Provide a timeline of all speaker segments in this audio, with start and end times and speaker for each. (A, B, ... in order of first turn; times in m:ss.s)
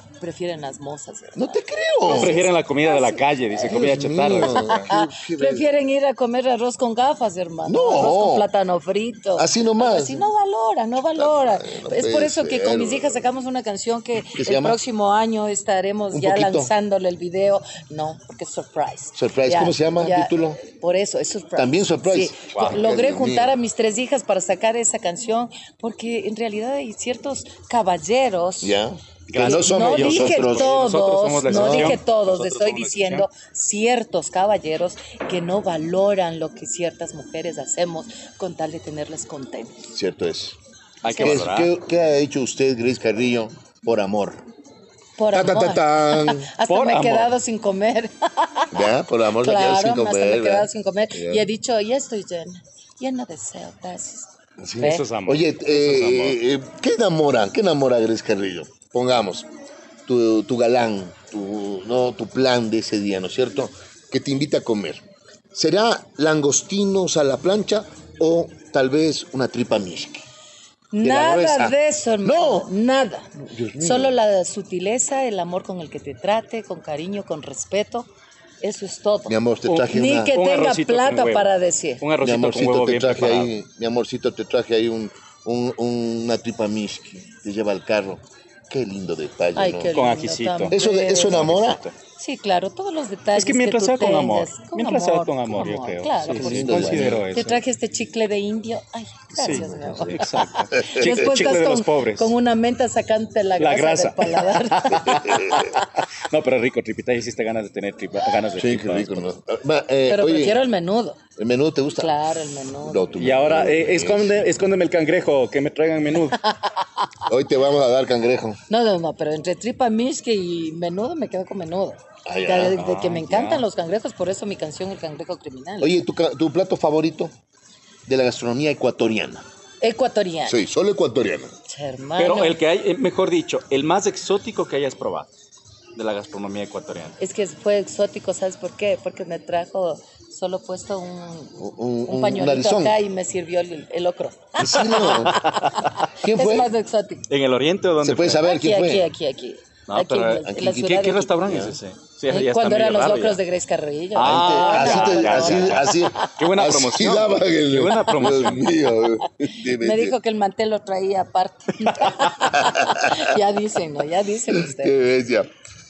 0:00.2-0:03.2 A
0:01.3-0:02.5 B
0:02.1-0:04.8 C
0:03.5-0:05.7 B
0:04.5-0:28.8 A
0:07.6-0:08.5 B
0:09.4-0:10.2 B
0:11.1-0:13.3 B
0:14.3-0:14.8 B
0:16.1-0:16.7 B
0:19.1-0:20.6 B
0:21.6-0:23.6 B
0:22.5-0:22.8 C
0:28.6-0:30.9 B
0:29.3-0:33.3 C
0:29.4-0:39.9 A
0:31.5-0:32.0 B
0:39.9-0:40.6 B
0:41.0-0:41.7 C
0:41.0-0:41.4 A
0:41.1-0:44.4 B
0:45.2-0:48.8 A
0:45.3-0:46.5 B
0:46.6-0:47.3 C
0:48.7-0:51.4 B
0:49.3-0:55.1 A
0:54.6-0:59.5 B
0:54.8-0:56.4 C
1:00.0-1:10.2 B
1:10.9-1:18.1 A
1:11.0-1:12.7 B
1:13.3-1:14.1 B
1:18.6-1:22.0 A
1:19.3-1:20.4 B
1:19.6-1:23.5 C
1:22.2-1:29.9 B
1:29.6-1:31.6 A
1:29.9-1:30.7 C
1:30.7-1:31.8 B
1:31.3-1:31.9 C
1:32.2-1:45.9 A
1:33.3-1:37.6 C
1:36.3-1:37.3 B
1:39.3-1:40.2 B
1:39.3-1:42.3 C
1:40.8-1:41.2 B
1:43.6-1:49.3 C
1:45.0-1:45.7 B
1:48.6-1:50.6 B
1:50.1-1:51.2 A
1:51.4-1:52.1 B
1:52.0-1:53.1 A
1:52.8-1:54.4 B
1:53.2-1:56.4 C
1:57.3-1:58.6 B
1:58.7-2:06.0 A
2:02.2-2:02.8 B
2:02.8-2:03.6 C
2:05.8-2:07.3 B
2:08.0-2:09.4 B
2:09.8-2:10.6 A
2:10.5-2:11.5 B
2:11.6-2:12.6 A
2:12.2-2:15.3 C
2:16.0-2:17.2 C
2:17.2-2:27.2 A
2:21.6-2:23.0 B
2:24.6-2:25.4 B
2:25.2-2:25.9 C
2:26.2-2:26.7 B
2:27.3-2:28.4 C
2:28.0-2:29.1 B
2:28.4-2:31.3 A
2:29.9-2:33.4 C
2:30.4-2:31.8 B
2:32.3-2:36.4 A
2:34.1-2:38.8 C
2:34.2-2:40.2 B
2:39.6-2:44.9 A
2:42.5-2:43.3 B
2:44.5-2:45.5 B